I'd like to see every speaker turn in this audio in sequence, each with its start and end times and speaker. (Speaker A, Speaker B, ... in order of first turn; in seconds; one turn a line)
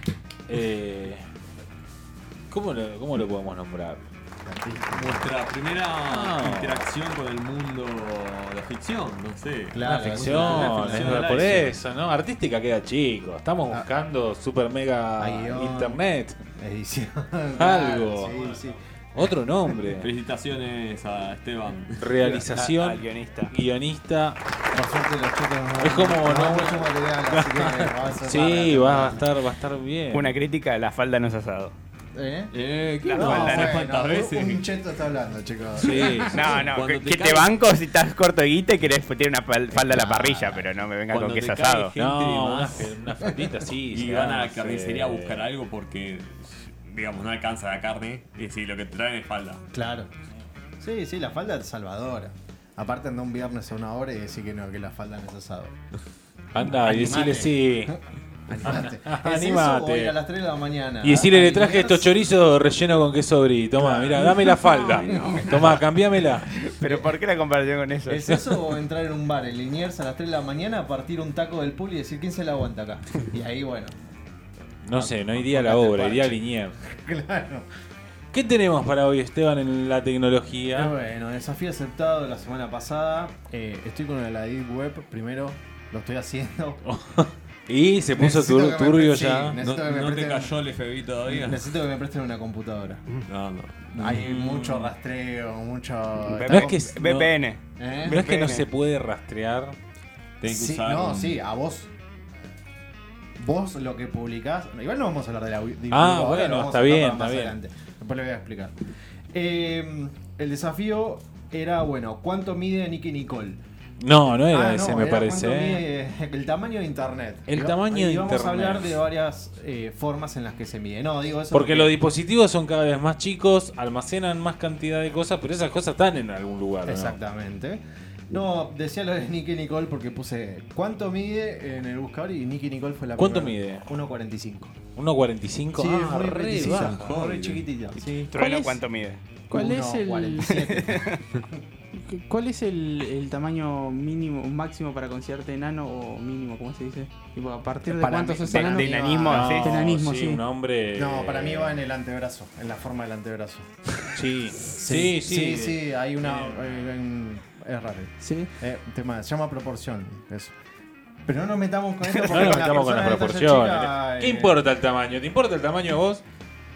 Speaker A: 0.5-1.2
Speaker A: 2.5-4.1
Speaker B: 4.4-5.3
Speaker C: 4.9-11.8
Speaker A: 6.1-6.9
Speaker B: 9.7-11.4
Speaker A: 9.8-16.4
Speaker B: 15.2-16.0
Speaker B: 16.6-18.8
Speaker A: 17.6-18.4
Speaker A: 19.1-20.1
Speaker C: 19.9-22.2
Speaker A: 22.0-24.4
Speaker D: 22.5-23.5
Speaker B: 24.7-29.3
Speaker A: 25.8-30.3
Speaker D: 30.1-31.7
Speaker B: 32.1-32.5
Speaker C: 32.5-34.7
Speaker D: 33.0-33.8
Speaker B: 33.1-36.6
Speaker A: 35.8-36.7
Speaker D: 36.3-41.9
Speaker C: 36.5-37.5
Speaker B: 39.7-40.7
Speaker C: 41.1-43.0
Speaker A: 42.0-45.5
Speaker C: 43.9-49.6
Speaker B: 49.7-50.1
Speaker B: 50.8-55.8
Speaker A: 56.5-57.9
Speaker B: 56.6-62.1
Speaker A: 58.6-60.1
Speaker A: 61.0-66.5
Speaker B: 63.8-65.9
Speaker E: 64.7-65.4
Speaker D: 66.6-68.2
Speaker B: 66.8-67.1
Speaker B: 68.1-73.9
Speaker A: 74.8-76.7
Speaker B: 74.9-77.7
Speaker A: 78.3-80.9
Speaker B: 80.7-86.8
Speaker A: 86.9-89.6
Speaker B: 88.1-90.5
Speaker C: 89.6-91.7
Speaker B: 91.3-93.3
Speaker C: 93.3-93.8
Speaker B: 93.9-96.8
Speaker A: 94.0-94.9
Speaker D: 96.2-98.7
Speaker A: 96.5-97.3
Speaker B: 97.8-98.2
Speaker A: 98.1-99.8
Speaker C: 100.4-101.4
Speaker B: 100.5-101.9
Speaker B: 103.4-108.7
Speaker A: 105.9-107.5
Speaker B: 109.3-113.6
Speaker A: 114.0-115.8
Speaker B: 114.4-122.0
Speaker A: 117.5-119.0
Speaker A: 121.5-127.2
Speaker B: 126.8-134.7
Speaker A: 133.2-133.8
Speaker A: 134.9-137.0
Speaker B: 135.7-138.3
Speaker C: 136.5-138.0
Speaker D: 138.3-139.2
Speaker E: 138.4-138.8
Speaker B: 139.5-141.2
Speaker E: 139.5-140.5
Speaker D: 140.5-141.2
Speaker E: 141.9-148.9
Speaker D: 148.0-149.7
Speaker B: 148.5-149.6
Speaker A: 149.2-151.8
Speaker E: 149.6-150.4
Speaker B: 150.9-160.6
Speaker A: 154.1-156.8
Speaker E: 158.2-158.5
Speaker B: 161.2-164.6
Speaker D: 162.1-162.8
Speaker A: 162.3-166.2